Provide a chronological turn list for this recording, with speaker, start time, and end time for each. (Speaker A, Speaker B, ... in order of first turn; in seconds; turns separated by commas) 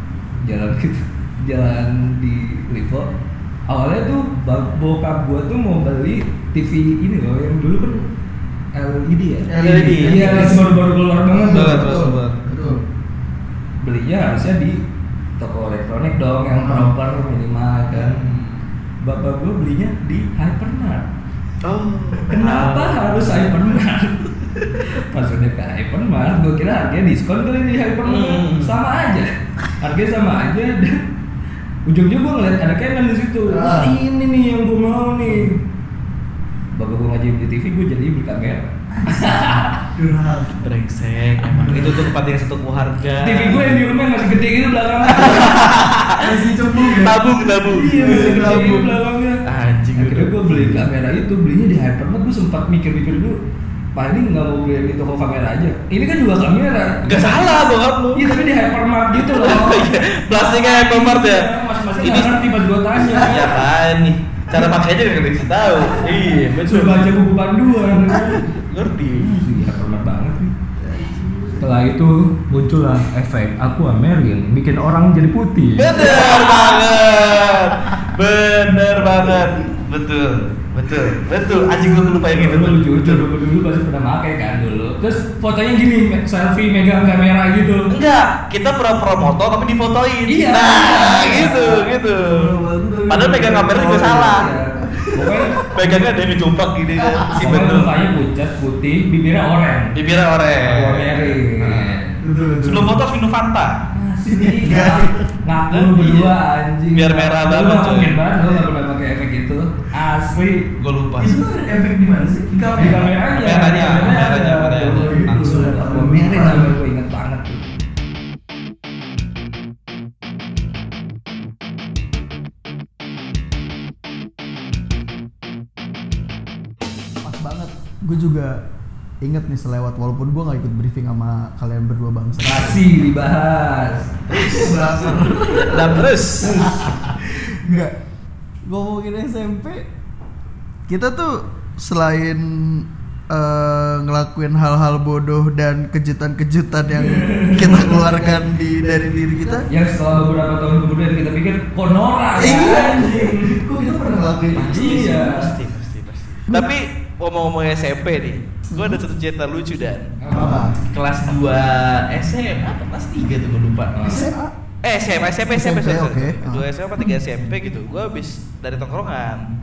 Speaker A: 0.4-3.1, Speaker A: 3.7-8.1, Speaker A: 8.7-12.0, Speaker B: 9.5-10.7, Speaker C: 9.6-10.6, Speaker B: 11.3-12.8, Speaker C: 11.4-12.4, Speaker A: 13.8-14.8, Speaker A: 15.4-18.2, Speaker B: 16.5-16.9, Speaker C: 17.9-18.6, Speaker A: 19.0-21.1, Speaker C: 21.6-23.5, Speaker A: 22.3-31.0, Speaker C: 28.0-28.8, Speaker A: 31.9-35.6, Speaker B: 33.5-34.0, Speaker A: 36.7-39.8, Speaker B: 39.0-40.6, Speaker C: 40.6-43.8, Speaker B: 41.4-42.1, Speaker A: 43.2-45.6, Speaker C: 45.1-48.9, Speaker B: 46.1-48.9, Speaker A: 47.7-49.4, Speaker C: 49.4-50.3, Speaker A: 50.0-53.4, Speaker B: 50.5-50.8, Speaker A: 53.9-57.6, Speaker C: 57.1-58.2, Speaker A: 58.1-63.6, Speaker C: 59.1-62.4, Speaker C: 63.0-67.1, Speaker A: 66.6-68.5, Speaker C: 68.5-69.4, Speaker A: 69.2-70.5, Speaker B: 70.8-71.7, Speaker A: 71.6-76.2, Speaker C: 75.8-83.2, Speaker B: 76.0-77.0, Speaker A: 82.0-87.9, Speaker C: 87.9-92.5, Speaker A: 90.3-91.9, Speaker B: 92.2-94.3, Speaker C: 93.1-94.5, Speaker A: 93.7-96.0, Speaker B: 94.8-95.5, Speaker C: 95.6-97.9, Speaker B: 97.0-97.3, Speaker A: 97.3-100.0, Speaker C: 99.9-101.9, Speaker A: 100.6-102.2, Speaker B: 102.2-103.0, Speaker C: 102.6-103.8, Speaker A: 103.9-110.7, Speaker B: 104.3-105.2, Speaker C: 105.7-106.3, Speaker C: 106.9-108.2, Speaker C: 110.8-111.3, Speaker B: 111.2-113.1, Speaker A: 112.8-117.6, Speaker C: 113.3-115.6, Speaker B: 114.9-116.7, Speaker B: 127.2-128.6, Speaker B: 129.2-132.8, Speaker A: 132.4-134.6, Speaker B: 134.3-137.9, Speaker C: 135.6-136.7, Speaker A: 136.4-136.8, Speaker B: 138.7-139.8, Speaker B: 140.9-149.7, Speaker A: 146.9-148.1, Speaker A: 149.7-153.6, Speaker B: 152.3-155.1, Speaker C: 154.5-164.3, Speaker A: 154.7-155.5, Speaker B: 158.7-159.0, Speaker A: 160.2-160.7, Speaker B: 160.3-160.8, Speaker A: 163.9-164.3, Speaker B: 164.0-164.5, Speaker C: 164.8-169.5, Speaker B: 165.5-166.7